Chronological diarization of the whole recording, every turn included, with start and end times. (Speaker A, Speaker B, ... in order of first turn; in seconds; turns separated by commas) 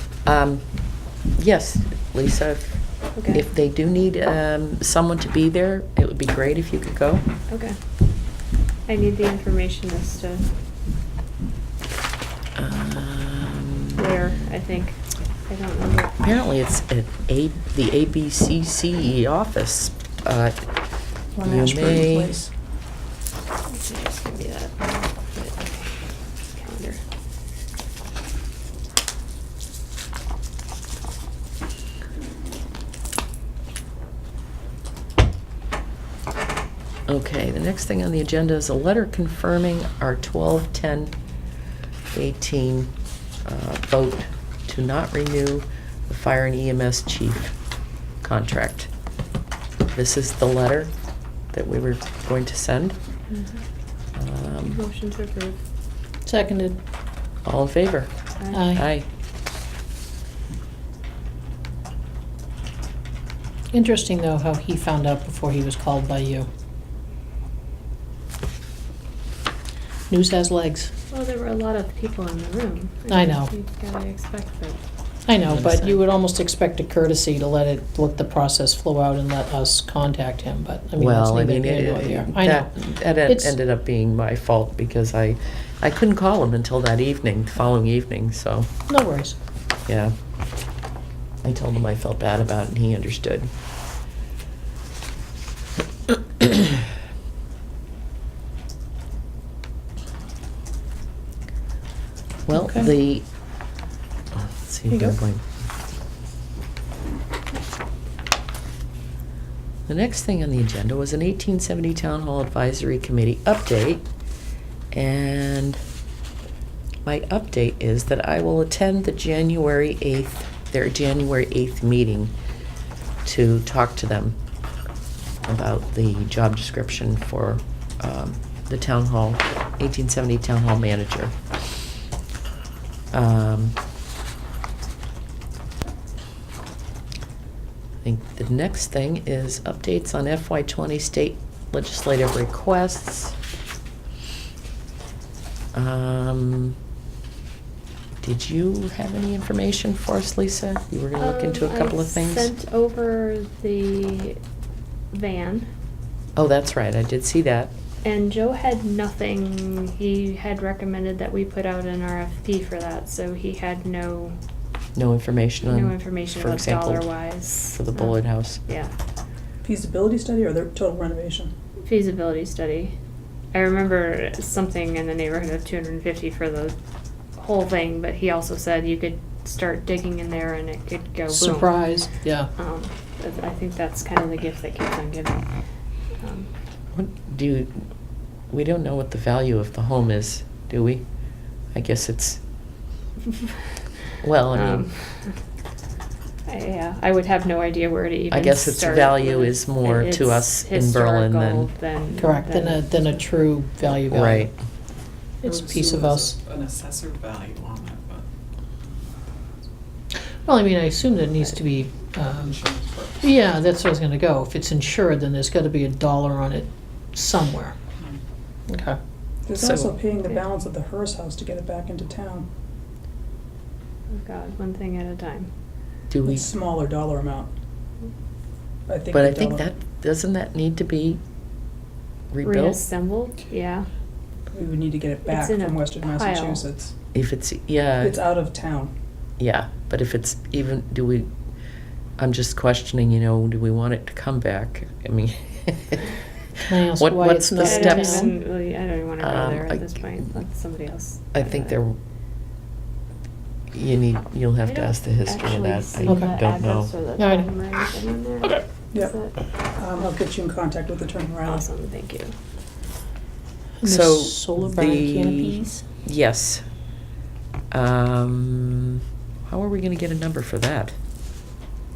Speaker A: 0.3-0.6, Speaker A: 1.4-7.2, Speaker B: 3.2-3.5, Speaker B: 7.5-7.8, Speaker B: 8.9-10.5, Speaker A: 12.6-14.3, Speaker B: 14.0-16.3, Speaker A: 16.2-20.6, Speaker C: 21.4-22.5, Speaker A: 21.4-22.4, Speaker B: 23.7-25.9, Speaker B: 26.5-27.0, Speaker A: 37.1-41.1, Speaker A: 42.1-42.9, Speaker A: 43.5-47.5, Speaker A: 48.2-48.9, Speaker A: 49.9-50.9, Speaker A: 51.5-53.0, Speaker B: 53.3-53.6, Speaker A: 54.2-54.8, Speaker B: 54.7-55.6, Speaker D: 56.3-56.8, Speaker A: 57.5-58.1, Speaker B: 58.4-58.7, Speaker D: 58.5-58.9, Speaker A: 58.8-59.1, Speaker D: 63.7-66.5, Speaker D: 70.1-70.9, Speaker B: 71.1-74.8, Speaker D: 73.1-73.5, Speaker D: 75.3-83.6, Speaker A: 75.5-76.0, Speaker A: 81.0-88.7, Speaker D: 88.9-89.4, Speaker A: 89.9-90.1, Speaker A: 91.4-93.5, Speaker A: 102.5-103.2, Speaker D: 102.5-102.9, Speaker A: 104.3-105.4, Speaker D: 104.9-105.2, Speaker A: 109.9-114.0, Speaker A: 114.9-115.8, Speaker A: 117.0-122.3, Speaker A: 123.2-124.4, Speaker A: 125.5-131.3, Speaker A: 133.1-133.8, Speaker A: 138.0-143.4, Speaker A: 145.7-146.8, Speaker A: 148.2-152.5, Speaker B: 151.2-154.4, Speaker B: 155.1-155.7, Speaker A: 156.4-157.7, Speaker B: 158.0-164.4, Speaker A: 165.0-168.6, Speaker B: 165.6-168.9, Speaker C: 169.6-171.5, Speaker B: 171.8-172.9, Speaker B: 173.5-176.8, Speaker B: 177.4-181.8, Speaker D: 181.3-182.5, Speaker B: 182.6-185.5, Speaker B: 186.2-186.5, Speaker A: 186.9-187.8, Speaker A: 188.5-191.0, Speaker A: 191.7-192.4, Speaker A: 194.2-194.9, Speaker B: 194.5-195.3, Speaker B: 196.5-202.9, Speaker A: 198.3-201.7, Speaker D: 202.2-204.5, Speaker A: 204.1-204.5, Speaker D: 205.4-206.4, Speaker E: 205.4-208.2, Speaker D: 210.4-212.6, Speaker E: 212.3-213.3, Speaker D: 213.2-217.8, Speaker D: 218.7-219.0, Speaker C: 219.5-222.5, Speaker A: 219.6-219.9, Speaker B: 224.1-225.5, Speaker A: 226.1-226.5, Speaker C: 226.2-227.5, Speaker C: 228.9-229.7, Speaker A: 229.1-231.2, Speaker A: 232.3-232.8, Speaker B: 232.4-233.9, Speaker C: 234.5-236.9, Speaker B: 235.3-236.7, Speaker A: 237.1-238.2, Speaker C: 238.0-238.9, Speaker A: 239.4-241.3, Speaker A: 242.2-246.0, Speaker D: 246.7-248.3, Speaker A: 246.9-248.3, Speaker B: 247.6-251.8, Speaker A: 249.2-250.0, Speaker A: 251.3-252.0, Speaker A: 253.7-256.9, Speaker B: 254.6-259.4, Speaker D: 256.1-256.3, Speaker D: 257.2-257.5, Speaker C: 259.8-261.6, Speaker B: 261.4-262.3, Speaker D: 263.8-265.8, Speaker A: 263.8-266.6, Speaker A: 267.7-270.9